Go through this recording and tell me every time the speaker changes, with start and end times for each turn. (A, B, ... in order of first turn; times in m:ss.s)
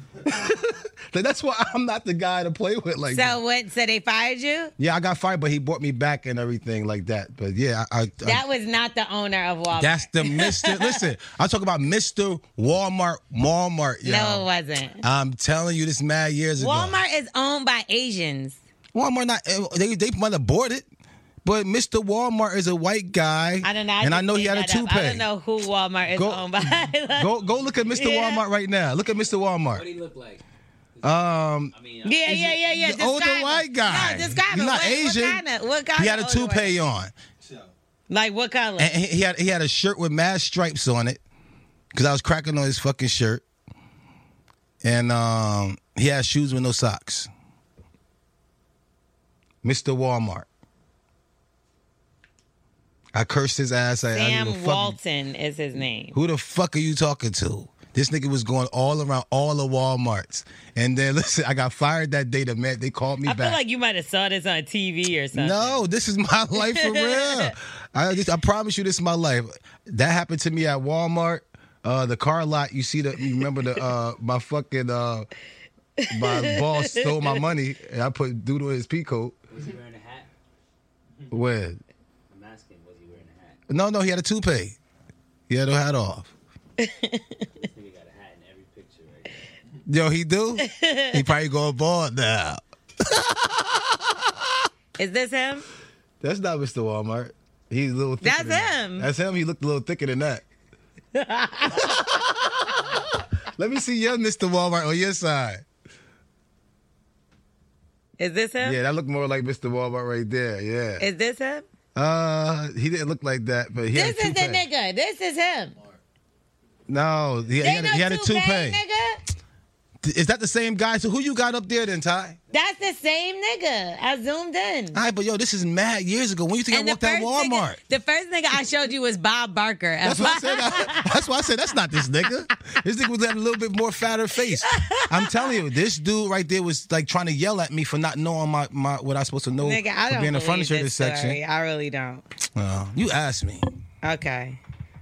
0:00.2-0:03.4 A
0:03.1-0:04.7 B
0:04.8-0:08.4 A
0:08.2-0:11.1 B
0:09.8-0:14.5 A
0:14.0-0:15.0 B
0:15.0-0:17.0 A
0:16.6-0:18.6 B
0:18.9-0:20.9 A
0:21.4-0:25.3 A
0:23.6-0:27.3 B
0:26.1-0:26.5 A
0:27.1-0:29.8 A
0:27.4-0:27.8 C
0:27.9-0:28.4 B
0:29.7-0:30.4 C
0:31.0-0:32.6 C
0:31.0-0:31.7 A
0:32.0-0:36.7 B
0:32.3-0:35.4 A
0:36.0-0:37.1 A
0:38.1-0:38.9 B
0:38.8-0:41.2 A
0:41.9-0:43.4 A
0:44.8-0:47.3 A
0:49.6-0:50.5 A
0:53.1-0:55.0 A
0:54.1-0:56.2 B
0:56.1-1:03.6 A
1:03.2-1:05.8 B
1:05.3-1:15.3 A
1:06.6-1:07.5 B
1:16.0-1:17.3 B
1:16.1-1:19.4 A
1:19.5-1:20.3 C
1:21.3-1:21.8 A
1:22.3-1:23.6 C
1:23.7-1:24.8 A
1:25.5-1:26.3 A
1:26.8-1:27.4 B
1:27.6-1:29.4 C
1:29.9-1:34.6 A
1:30.6-1:31.2 B
1:35.0-1:35.7 B
1:36.2-1:40.4 A
1:38.2-1:39.1 B
1:41.2-1:41.9 B
1:41.7-1:45.6 A
1:48.2-1:48.8 B
1:48.6-1:51.1 A
1:51.0-1:51.6 B
1:52.0-1:54.6 A
1:53.9-1:55.8 B
1:56.9-1:58.8 A
1:57.6-1:59.2 B
2:00.0-2:02.4 A
2:02.5-2:05.0 B
2:04.9-2:07.8 A
2:06.7-2:11.2 B
2:10.0-2:21.4 A
2:14.6-2:15.5 B
2:19.6-2:22.2 B
2:22.6-2:23.7 A
2:24.0-2:24.6 B